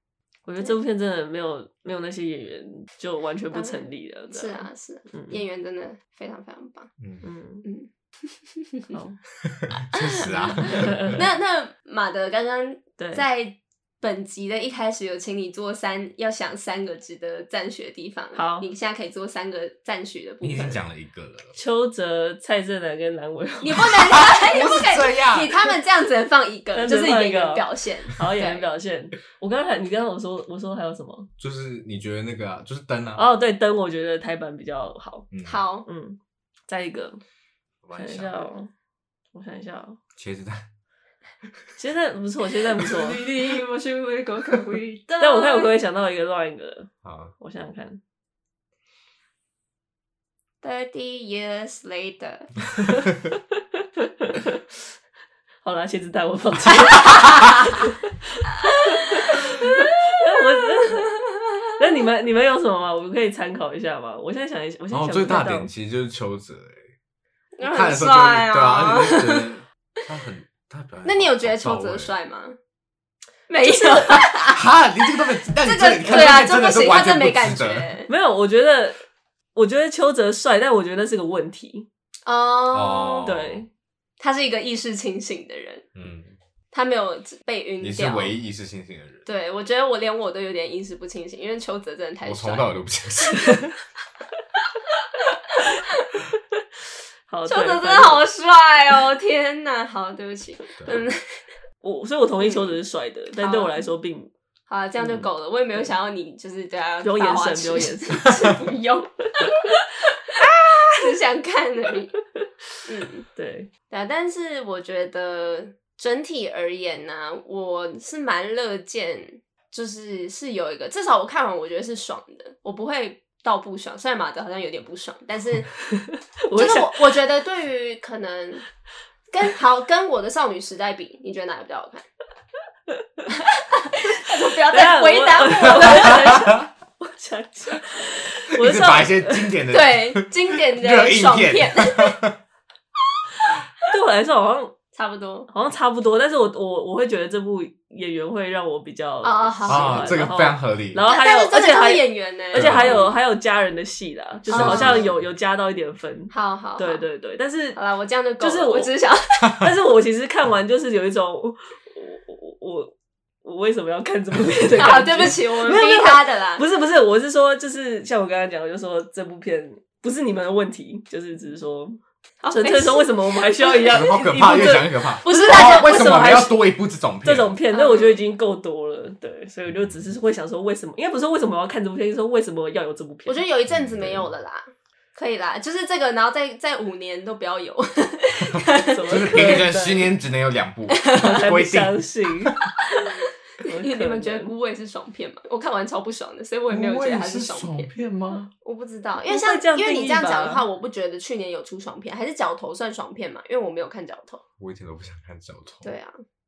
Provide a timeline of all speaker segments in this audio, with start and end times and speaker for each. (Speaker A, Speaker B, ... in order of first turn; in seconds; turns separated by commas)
Speaker A: 0.5-5.4, Speaker B: 3.5-6.9, Speaker C: 7.0-7.3, Speaker A: 7.2-7.7, Speaker B: 7.6-9.0, Speaker A: 8.9-9.2, Speaker C: 9.5-11.2, Speaker B: 9.9-20.8, Speaker A: 10.6-11.2, Speaker A: 13.0-13.2, Speaker A: 18.4-18.7, Speaker C: 20.4-21.5, Speaker A: 21.6-24.0, Speaker B: 23.6-28.7, Speaker C: 23.9-25.5, Speaker A: 26.8-31.3, Speaker C: 31.4-33.2, Speaker A: 33.2-35.3, Speaker C: 35.3-35.6, Speaker B: 35.4-35.9, Speaker A: 35.9-37.2, Speaker C: 37.8-38.4, Speaker A: 37.9-38.7, Speaker A: 39.3-40.0, Speaker C: 40.2-40.6, Speaker A: 41.8-43.2, Speaker B: 42.8-45.7, Speaker A: 45.2-48.0, Speaker C: 47.0-47.3, Speaker B: 50.6-52.5, Speaker A: 54.0-54.6, Speaker A: 55.6-61.1, Speaker B: 57.1-57.6, Speaker B: 58.7-61.8, Speaker A: 61.8-65.7, Speaker C: 64.9-66.9, Speaker B: 67.6-69.5, Speaker C: 67.6-72.1, Speaker B: 71.0-72.6, Speaker B: 73.5-74.6, Speaker A: 73.6-74.2, Speaker C: 74.5-77.9, Speaker B: 75.6-78.1, Speaker A: 78.1-79.0, Speaker A: 79.5-81.9, Speaker B: 82.3-83.3, Speaker C: 82.7-83.7, Speaker A: 83.2-83.7, Speaker B: 84.2-85.8, Speaker C: 86.0-86.4, Speaker B: 86.7-88.3, Speaker C: 87.8-89.3, Speaker B: 89.2-92.7, Speaker C: 92.2-93.6, Speaker B: 95.2-96.0, Speaker A: 97.3-98.3, Speaker B: 97.5-101.4, Speaker A: 101.8-104.3, Speaker B: 102.4-102.8, Speaker B: 103.4-103.9, Speaker B: 104.7-110.2, Speaker A: 105.0-105.3, Speaker A: 107.0-108.3, Speaker A: 110.4-110.9, Speaker B: 110.9-112.1, Speaker B: 112.8-113.3, Speaker A: 113.4-113.7, Speaker B: 113.9-125.7, Speaker A: 125.9-127.2, Speaker B: 126.5-128.7, Speaker B: 129.3-132.1, Speaker B: 133.3-136.5, Speaker A: 134.5-139.6, Speaker C: 135.9-136.6, Speaker C: 138.6-142.4, Speaker B: 139.7-142.2, Speaker A: 143.9-144.8, Speaker B: 144.9-145.5, Speaker A: 145.5-157.8, Speaker B: 149.2-150.2, Speaker C: 149.7-151.0, Speaker B: 151.1-153.1, Speaker C: 152.5-153.1, Speaker B: 154.5-155.1, Speaker C: 154.5-155.2, Speaker B: 156.3-157.0, Speaker B: 157.8-159.7, Speaker A: 158.4-158.9, Speaker A: 159.6-172.0, Speaker B: 164.7-166.6, Speaker B: 172.4-174.0, Speaker A: 172.5-176.6, Speaker C: 173.9-177.5, Speaker B: 175.2-176.5, Speaker A: 177.2-183.4, Speaker B: 177.7-178.2, Speaker C: 179.7-180.1, Speaker B: 183.3-184.7, Speaker C: 183.7-184.3, Speaker B: 185.2-189.7, Speaker C: 188.5-192.5, Speaker A: 188.8-190.1, Speaker A: 191.1-192.7, Speaker A: 193.6-194.5, Speaker B: 193.7-197.9, Speaker C: 196.7-198.5, Speaker B: 198.6-204.4, Speaker A: 199.3-200.6, Speaker C: 204.6-205.9, Speaker B: 205.8-206.2